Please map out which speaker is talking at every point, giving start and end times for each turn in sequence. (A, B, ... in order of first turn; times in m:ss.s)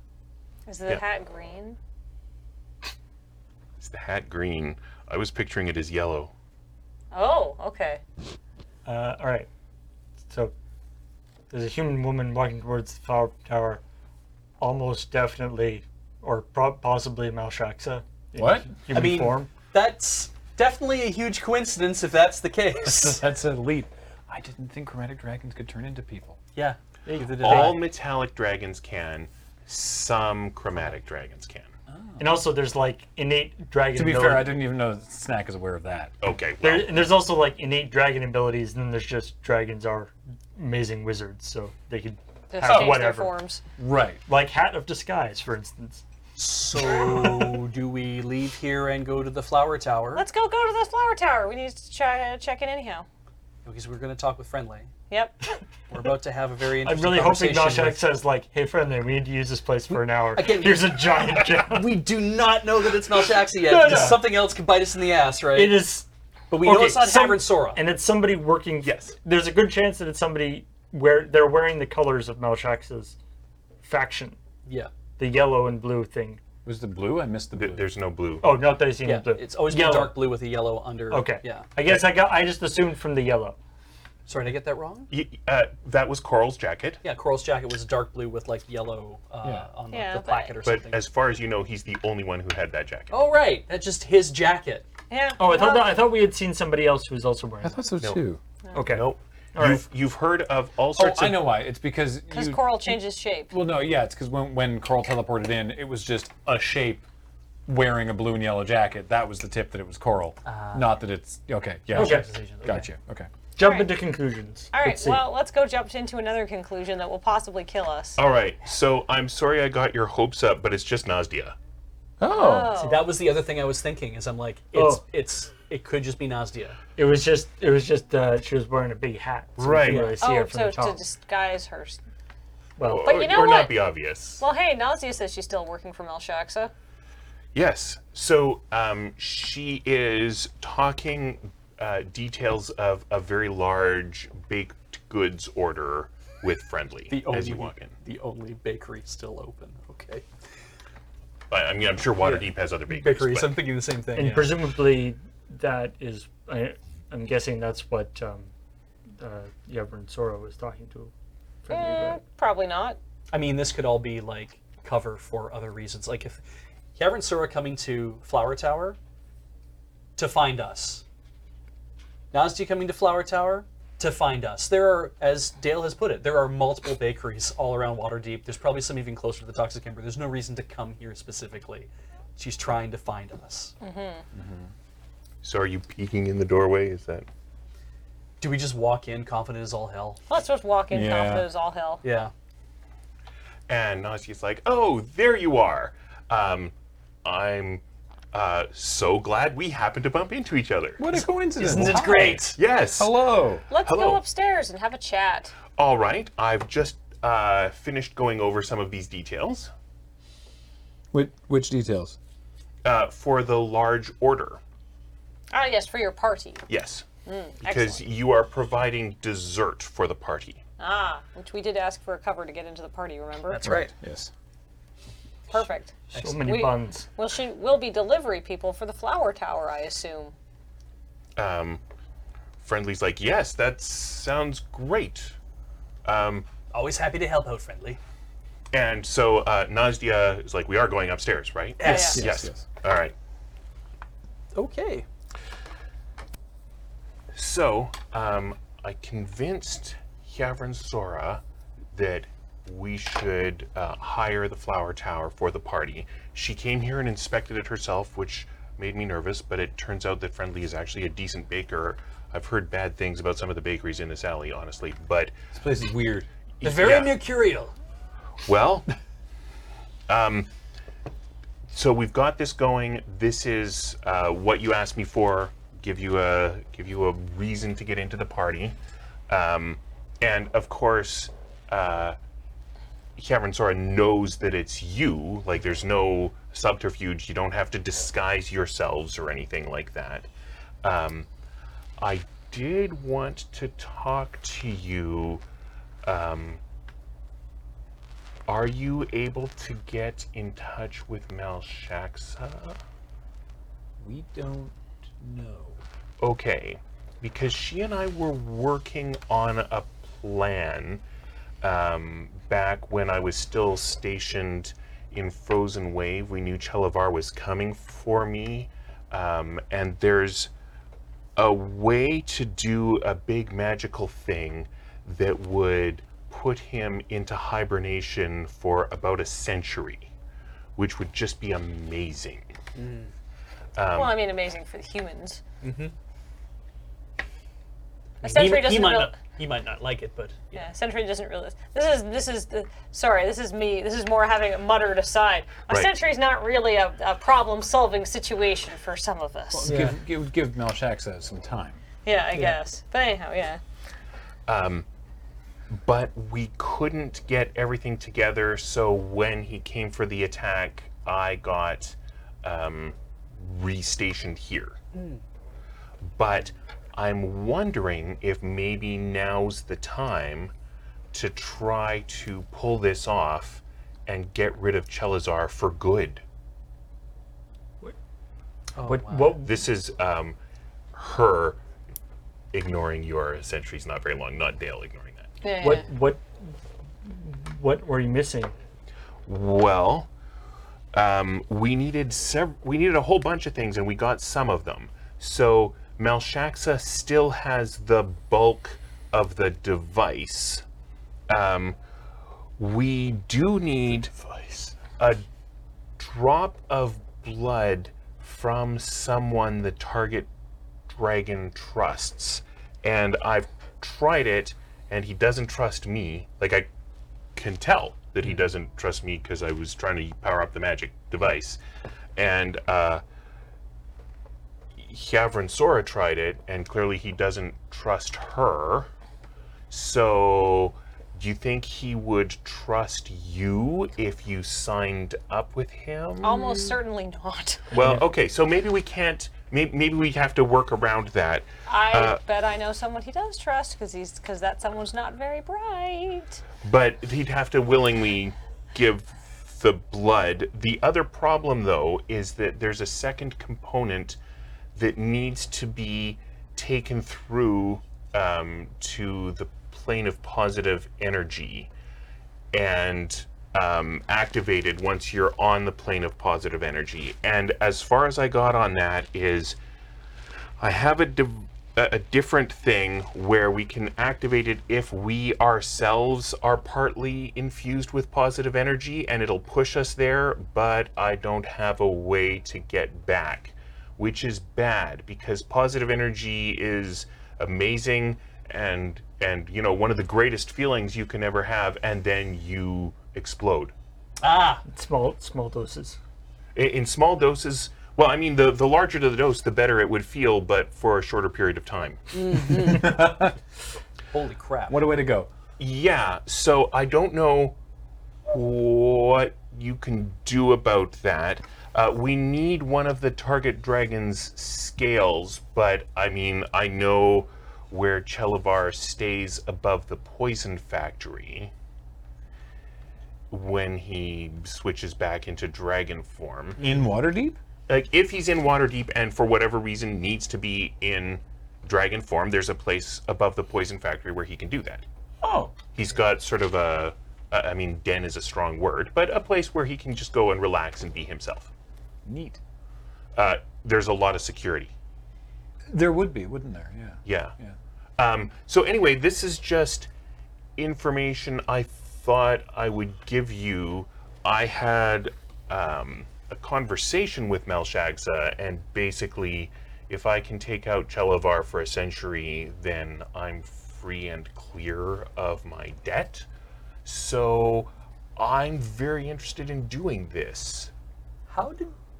0:00.7-0:01.8 A
0:03.8-0:06.3 B
0:07.1-0:08.0 A
0:08.8-0:09.5 C
0:11.5-0:13.8 C
0:14.6-0:19.5 C
0:18.4-0:19.0 D
0:18.9-0:23.2 E
0:22.8-0:26.4 D
0:26.5-0:27.8 E
0:27.0-0:27.7 C
0:27.4-0:31.7 B
0:31.9-0:32.3 D
0:32.2-0:34.6 C
0:33.9-0:36.1 D
0:36.2-0:37.0 B
0:36.6-0:43.3 C
0:42.5-0:43.6 A
0:42.7-0:43.0 D
0:43.8-0:44.2 D
0:44.2-0:46.0 C
0:46.4-0:50.2 E
0:50.1-0:53.0 A
0:53.6-0:54.9 E
0:55.1-0:55.4 A
0:55.9-0:58.0 E
0:56.8-1:01.9 C
1:00.3-1:05.9 E
1:03.6-1:04.2 C
1:05.5-1:06.0 C
1:06.5-1:07.8 E
1:06.6-1:13.2 C
1:08.8-1:09.1 B
1:13.8-1:14.4 C
1:15.2-1:16.4 C
1:16.6-1:17.9 D
1:17.5-1:18.5 B
1:18.4-1:20.2 C
1:19.0-1:21.7 E
1:21.1-1:23.6 C
1:24.3-1:25.1 E
1:25.1-1:27.0 B
1:27.0-1:31.1 E
1:29.9-1:30.6 A
1:30.6-1:33.1 B
1:33.1-1:34.8 E
1:35.1-1:36.1 A
1:35.4-1:37.9 C
1:37.6-1:38.4 D
1:38.7-1:39.8 C
1:38.8-1:41.5 B
1:40.9-1:43.0 D
1:42.3-1:43.5 A
1:43.5-1:47.0 D
1:47.6-1:53.3 D
1:50.4-1:51.0 E
1:51.9-1:52.9 E
1:52.0-1:52.3 C
1:53.6-1:55.2 C
1:53.6-1:53.9 A
1:54.7-1:58.2 A
1:58.2-2:01.6 B
2:02.2-2:02.8 D
2:02.3-2:03.1 A
2:02.8-2:06.8 E
2:04.7-2:05.0 C
2:07.0-2:11.0 C
2:09.6-2:10.2 B
2:09.8-2:12.0 A
2:12.8-2:13.1 C
2:12.8-2:14.4 B
2:13.0-2:13.8 A
2:14.4-2:16.7 A
2:17.5-2:27.9 B
2:27.1-2:30.2 E
2:31.5-2:33.5 B
2:32.2-2:34.6 E
2:34.1-2:38.5 C
2:39.2-2:41.1 C
2:41.6-2:42.2 C
2:41.7-2:43.0 A
2:43.3-2:46.4 E
2:47.0-2:49.0 E
2:50.2-2:51.0 E
2:52.3-3:03.7 E
3:03.8-3:04.2 A
3:04.3-3:04.7 D
3:05.4-3:07.3 B
3:08.4-3:10.2 E
3:10.3-3:12.0 A
3:10.9-3:11.5 D
3:12.0-3:12.3 E
3:13.7-3:21.0 B
3:21.0-3:23.6 D
3:21.6-3:22.6 E
3:22.5-3:23.1 B
3:23.7-3:25.5 A
3:23.7-3:24.2 B
3:25.8-3:29.7 B
3:31.1-3:32.2 D
3:32.8-3:34.6 B
3:35.5-3:36.6 A
3:36.7-3:37.0 B
3:37.2-3:38.0 A
3:37.6-3:40.6 B
3:40.8-3:43.7 A
3:43.5-3:43.9 E
3:43.6-3:44.3 D
3:45.5-3:50.3 A
3:46.1-3:47.1 C
3:46.1-3:46.4 E
3:51.4-3:51.8 B
3:52.6-3:55.4 B
3:56.0-3:56.5 B
3:56.7-3:58.0 E
3:58.7-4:03.1 B
4:01.8-4:02.2 E
4:01.8-4:02.2 A
4:01.8-4:02.6 D
4:04.5-4:05.0 E
4:07.3-4:11.4 B
4:11.9-4:25.3 B
4:25.5-4:26.3 D
4:26.6-4:27.1 B
4:26.6-4:27.7 E
4:28.4-4:28.9 B
4:30.1-4:30.5 B
4:31.7-4:38.8 B
4:39.3-4:42.2 B
4:43.2-4:50.3 B
4:50.8-4:51.3 B
4:52.0-4:55.4 B
4:56.0-4:56.6 B
4:58.5-5:02.8 B
5:04.0-5:05.8 D
5:06.2-5:11.0 B
5:11.6-5:20.5 B
5:21.4-5:30.1 B
5:30.8-5:32.5 B
5:32.7-5:33.1 E
5:33.7-5:34.1 B
5:33.9-5:35.4 A
5:35.6-5:35.9 E
5:38.2-5:39.1 A
5:38.2-5:40.6 E
5:40.5-5:49.7 A
5:49.5-5:51.8 D
5:49.6-5:49.9 C
5:52.0-5:53.6 A
5:54.5-5:54.8 B
5:55.7-6:04.8 B
6:04.9-6:05.2 E
6:06.0-6:10.5 B
6:11.1-6:16.2 B
6:18.7-6:19.4 E
6:18.8-6:19.5 C
6:19.4-6:20.4 B
6:20.9-6:21.6 B
6:22.5-6:25.3 B
6:25.4-6:25.8 A
6:25.6-6:26.3 C
6:27.0-6:28.5 C
6:29.2-6:30.1 B
6:30.9-6:40.6 B
6:41.3-6:41.8 B
6:42.6-6:45.2 B
6:46.0-6:50.3 B
6:50.9-6:56.7 B
6:57.4-7:01.6 B
7:02.2-7:03.0 B
7:04.8-7:08.9 B
7:09.7-7:16.8 B
7:16.2-7:17.7 A
7:17.7-7:22.2 B
7:21.6-7:26.4 A
7:26.6-7:34.2 B
7:34.7-7:41.7 B
7:42.5-7:49.6 B
7:50.6-8:13.7 B
8:14.2-8:14.6 E
8:14.7-8:16.0 C
8:16.5-8:22.0 B
8:22.1-8:23.1 E
8:22.4-8:23.4 D
8:24.1-8:24.8 E
8:24.7-8:25.3 D
8:25.6-8:27.6 B
8:28.2-8:41.5 B
8:43.3-8:46.6 B
8:46.6-8:47.4 D
8:47.7-8:54.8 B
8:55.2-8:55.5 D
8:55.7-9:01.5 B
9:02.0-9:02.4 D
9:03.1-9:04.7 B
9:05.7-9:07.5 D
9:07.0-9:07.3 B
9:08.0-9:09.9 B
9:10.6-9:26.2 B
9:26.8-9:30.7 B
9:31.3-9:31.7 E